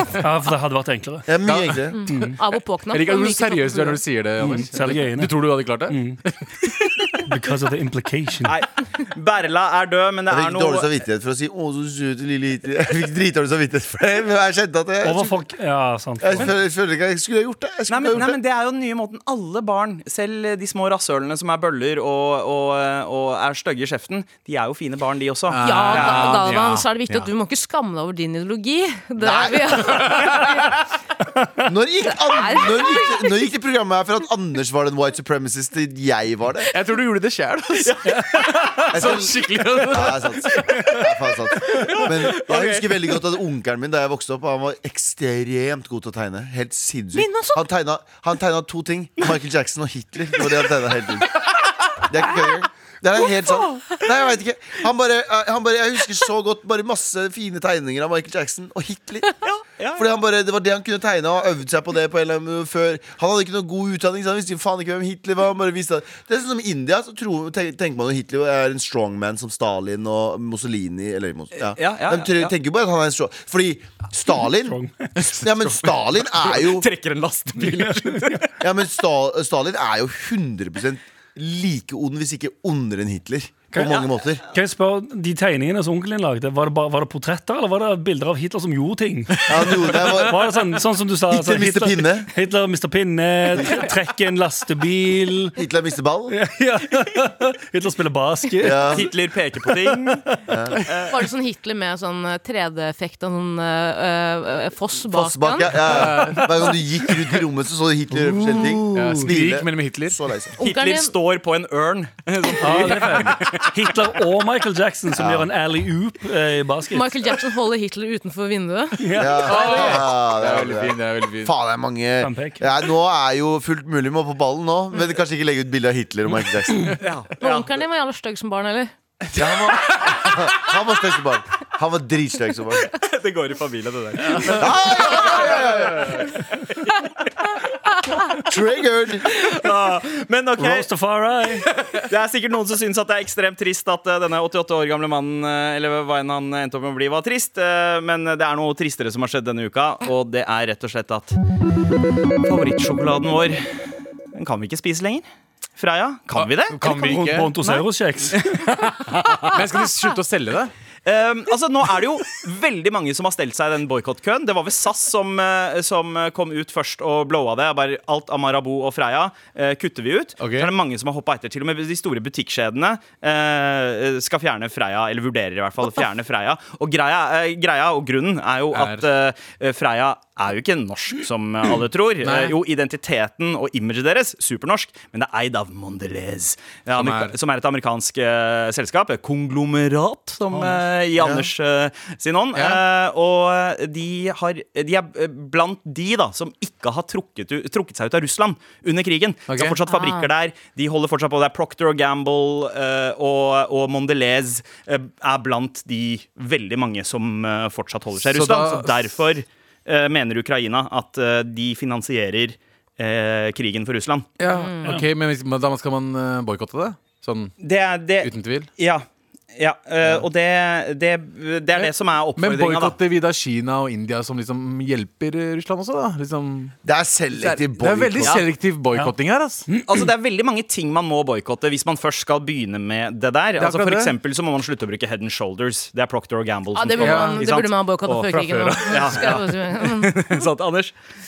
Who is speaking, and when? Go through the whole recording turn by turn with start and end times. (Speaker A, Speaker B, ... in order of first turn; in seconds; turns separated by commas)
Speaker A: 0.2-1.3, Speaker B: 1.3-2.0, Speaker C: 1.4-1.8, Speaker D: 1.9-4.0, Speaker A: 2.1-2.3, Speaker C: 2.9-6.4, Speaker A: 4.4-6.2, Speaker A: 7.3-8.5, Speaker E: 8.4-10.9, Speaker B: 10.3-15.4, Speaker A: 15.0-16.5, Speaker B: 16.2-18.4, Speaker E: 17.9-26.8, Speaker C: 25.5-27.3, Speaker D: 25.6-30.7, Speaker B: 29.2-30.2, Speaker C: 30.0-30.5, Speaker B: 31.6-36.7, Speaker D: 32.1-33.4, Speaker C: 36.7-40.7, Speaker E: 37.8-38.5, Speaker B: 38.9-51.4, Speaker E: 41.7-43.0, Speaker D: 47.1-47.6, Speaker B: 52.0-59.3, Speaker E: 59.4-60.0, Speaker B: 59.9-74.8, Speaker E: 71.7-72.5, Speaker A: 74.7-74.9, Speaker B: 75.3-76.9, Speaker E: 76.3-78.4, Speaker A: 77.6-78.4, Speaker B: 78.6-84.4, Speaker A: 83.7-95.5, Speaker B: 89.5-90.5, Speaker B: 91.3-92.3, Speaker B: 95.5-96.3, Speaker A: 96.3-99.1, Speaker B: 98.6-99.1, Speaker E: 98.9-100.2, Speaker A: 99.6-100.5, Speaker B: 100.5-100.8, Speaker E: 100.8-101.2, Speaker D: 101.1-105.7, Speaker B: 105.1-110.5, Speaker C: 105.9-106.5, Speaker A: 108.1-109.3, Speaker C: 108.9-110.2, Speaker D: 110.6-111.1, Speaker E: 110.6-113.7, Speaker A: 112.6-117.3, Speaker B: 115.1-115.5, Speaker D: 116.9-119.0, Speaker A: 119.0-120.0, Speaker B: 119.1-127.0, Speaker C: 119.4-121.5, Speaker A: 122.2-122.6, Speaker E: 127.0-127.7, Speaker D: 127.4-128.9, Speaker B: 129.3-132.9, Speaker E: 132.9-136.2, Speaker B: 134.4-136.2, Speaker B: 138.3-139.3, Speaker E: 139.3-140.9, Speaker A: 140.6-141.7, Speaker E: 141.9-151.4, Speaker E: 152.4-153.8, Speaker E: 154.3-155.2, Speaker E: 155.8-156.8, Speaker C: 156.3-157.6, Speaker A: 156.8-158.7, Speaker E: 158.3-158.7, Speaker E: 159.2-159.5, Speaker C: 159.5-160.7, Speaker E: 161.1-214.3, Speaker C: 170.4-170.7, Speaker C: 178.7-179.0, Speaker C: 182.2-182.6, Speaker C: 186.9-187.3, Speaker A: 190.5-190.8, Speaker B: 191.2-191.5, Speaker C: 192.5-192.8, Speaker C: 199.5-199.8, Speaker D: 199.9-200.3, Speaker C: 208.2-209.0, Speaker C: 214.4-217.5, Speaker D: 214.5-214.8, Speaker E: 217.6-222.9, Speaker C: 218.2-218.7, Speaker C: 221.7-226.7, Speaker B: 226.8-228.4, Speaker C: 227.4-229.7, Speaker A: 229.7-230.1, Speaker E: 229.8-238.2, Speaker C: 233.6-234.1, Speaker D: 236.7-240.2, Speaker C: 237.0-239.4, Speaker E: 238.8-240.9